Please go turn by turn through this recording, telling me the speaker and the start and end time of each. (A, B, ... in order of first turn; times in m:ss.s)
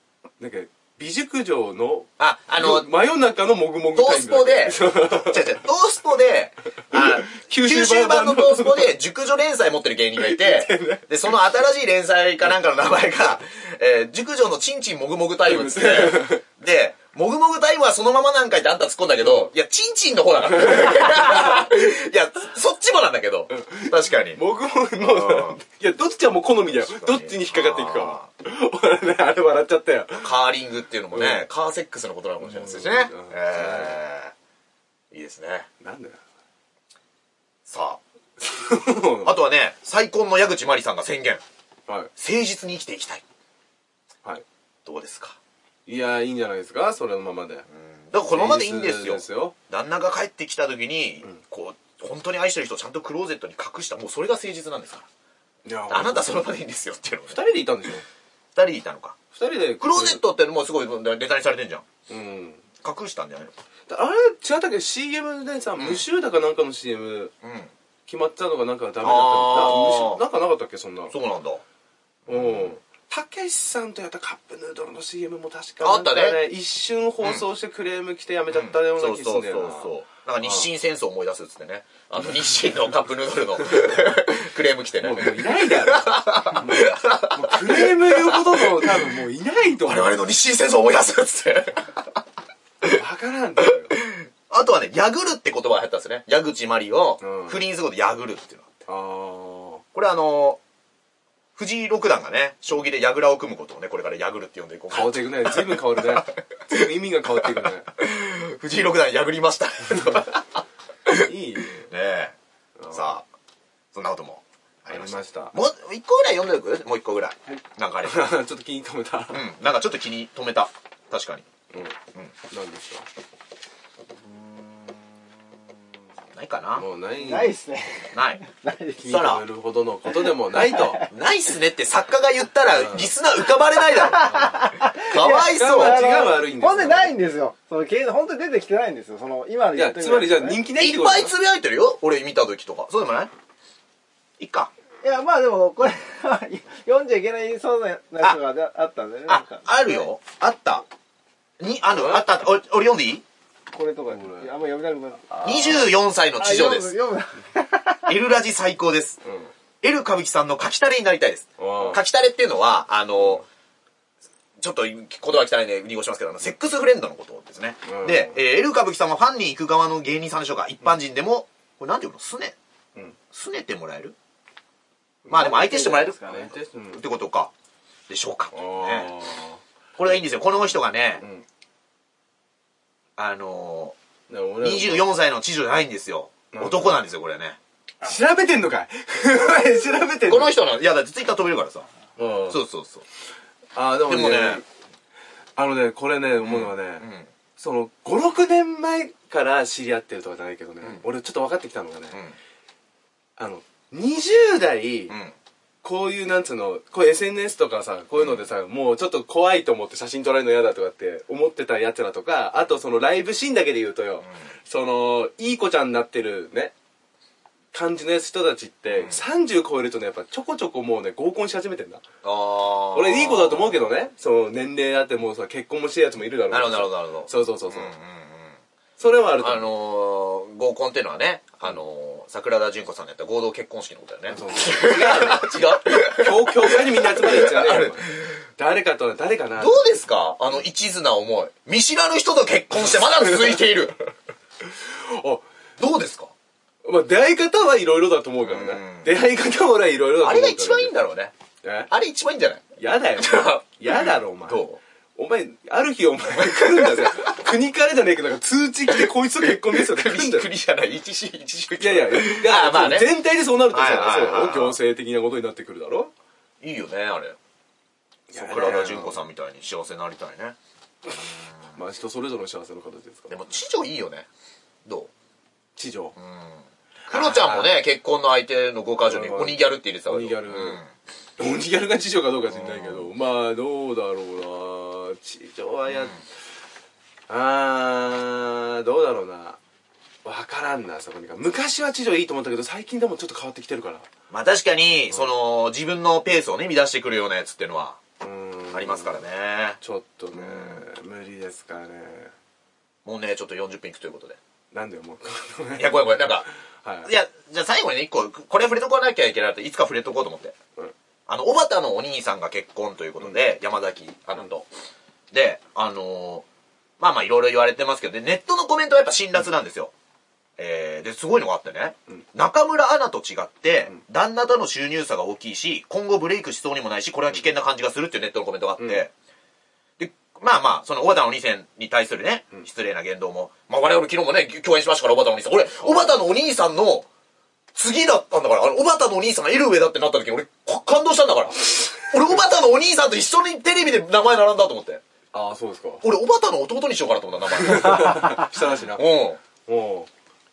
0:00.4-0:05.6 A
0:02.2-0:02.9 B
0:03.9-0:24.4 B
0:06.9-0:09.0 A
0:10.2-0:11.1 A
0:15.4-0:16.4 A
0:19.2-0:19.5 A
0:20.5-0:21.6 A
0:23.5-0:30.4 A
0:25.0-0:25.6 B
0:26.7-0:28.3 B
0:30.2-0:34.3 B
0:31.1-0:31.5 A
0:32.4-0:34.0 A
0:35.1-0:35.7 B
0:35.8-0:36.2 A
0:37.6-0:38.0 B
0:38.4-0:39.4 A
0:39.2-0:41.4 B
0:42.2-0:43.2 B
0:44.8-0:45.4 B
0:45.8-0:47.7 A
0:47.7-0:55.0 B
0:48.3-0:49.5 A
0:55.6-0:56.4 A
0:55.9-0:57.4 B
0:57.3-0:58.0 A
0:58.5-0:59.2 B
0:59.3-1:00.2 A
0:59.8-1:01.8 B
1:02.1-1:02.6 A
1:02.8-1:03.5 B
1:03.9-1:07.3 A
1:05.8-1:06.0 B
1:07.4-1:07.7 B
1:08.1-1:11.1 A
1:09.0-1:10.2 B
1:11.1-1:11.6 B
1:12.3-1:12.7 B
1:12.3-1:20.7 A
1:15.8-1:16.4 B
1:18.5-1:29.1 B
1:25.0-1:30.2 A
1:29.8-1:32.2 B
1:32.8-1:34.0 A
1:33.9-1:38.8 B
1:37.2-1:37.6 A
1:38.9-1:39.8 A
1:39.9-1:40.6 B
1:41.6-1:46.8 B
1:44.9-1:47.9 A
1:48.0-1:52.3 B
1:51.2-1:51.9 A
1:52.8-1:53.2 A
1:52.9-1:53.2 B
1:53.9-1:58.3 B
1:54.9-1:55.5 A
1:58.0-1:59.4 A
1:59.3-2:01.5 B
2:02.5-2:03.0 A
2:06.3-2:06.8 B
2:06.7-2:07.6 A
2:07.2-2:09.2 C
2:08.1-2:08.4 B
2:09.0-2:11.1 A
2:09.1-2:09.4 B
2:10.7-2:11.0 C
2:11.1-2:14.4 B
2:12.7-2:13.1 A
2:13.9-2:20.6 C
2:14.2-2:14.7 A
2:15.0-2:16.0 B
2:15.5-2:17.2 A
2:19.7-2:21.3 A
2:20.7-2:23.3 B
2:24.4-2:24.7 B
2:25.0-2:30.1 C
2:29.3-2:30.8 B
2:31.6-2:33.2 B
2:31.9-2:32.2 A
2:33.7-2:35.9 C
2:34.1-2:34.5 A
2:35.3-2:35.8 A
2:35.4-2:36.9 B
2:36.4-2:38.1 C
2:38.1-2:39.2 B
2:39.2-2:39.5 A
2:39.8-2:43.4 B
2:41.6-2:42.0 A
2:44.6-2:52.6 B
2:47.8-2:48.4 A
2:53.3-2:54.1 B
2:55.2-2:57.0 A
2:55.3-2:57.5 B
2:58.1-2:59.1 B
2:58.5-2:59.6 A
3:00.0-3:01.2 B
3:03.2-3:03.9 B
3:04.3-3:05.1 A
3:04.6-3:07.6 B
3:06.5-3:07.0 A
3:08.0-3:10.5 A
3:10.2-3:11.9 B
3:12.2-3:12.6 A
3:12.5-3:13.0 B
3:13.7-3:14.6 A
3:14.1-3:14.6 B
3:15.6-3:22.2 A
3:16.4-3:17.3 B
3:23.4-3:25.2 A
3:25.1-3:25.3 B
3:25.8-3:36.7 A
3:28.2-3:28.4 B
3:37.7-3:42.0 A
3:42.2-3:43.8 B
3:42.9-3:47.9 A
3:46.5-3:48.6 B
3:49.0-3:49.7 A
3:49.4-3:58.3 B
3:54.3-4:00.0 A
3:59.6-4:04.0 B
4:03.2-4:03.6 A
4:04.7-4:05.4 A
4:05.8-4:06.3 B
4:06.8-4:10.9 A
4:08.4-4:09.1 B
4:10.2-4:11.3 B
4:11.6-4:11.9 A
4:11.9-4:12.6 B
4:12.8-4:14.6 A
4:13.2-4:14.8 B
4:15.2-4:20.5 A
4:16.4-4:17.3 B
4:19.0-4:23.2 B
4:21.8-4:26.1 A
4:23.7-4:24.8 B
4:26.6-4:27.4 B
4:28.3-4:29.2 A
4:28.3-4:30.6 B
4:31.7-4:33.4 A
4:33.3-4:34.3 B
4:34.8-4:35.1 B
4:35.8-4:36.2 A
4:36.2-4:40.9 B
4:37.1-4:37.7 A
4:39.1-4:40.8 A
4:41.4-4:46.2 A
4:42.5-4:43.1 B
4:45.9-4:46.2 B
4:47.3-4:49.6 A
4:50.2-4:54.1 A
4:54.3-4:58.0 B
4:58.2-4:59.2 A
4:58.7-4:59.8 B
4:59.8-5:02.3 A
5:00.3-5:00.8 B
5:03.0-5:04.4 B
5:04.7-5:07.1 A
5:05.8-5:06.5 B
5:07.0-5:10.6 B
5:11.3-5:14.7 B
5:15.3-5:16.4 B
5:17.0-5:19.9 B
5:20.6-5:29.1 B
5:28.8-5:29.0 A
5:30.0-5:37.1 B
5:35.8-5:36.1 A
5:37.7-5:45.0 B
5:45.3-5:46.0 A
5:46.0-5:49.4 B
5:47.5-5:49.1 A
5:49.6-5:50.1 A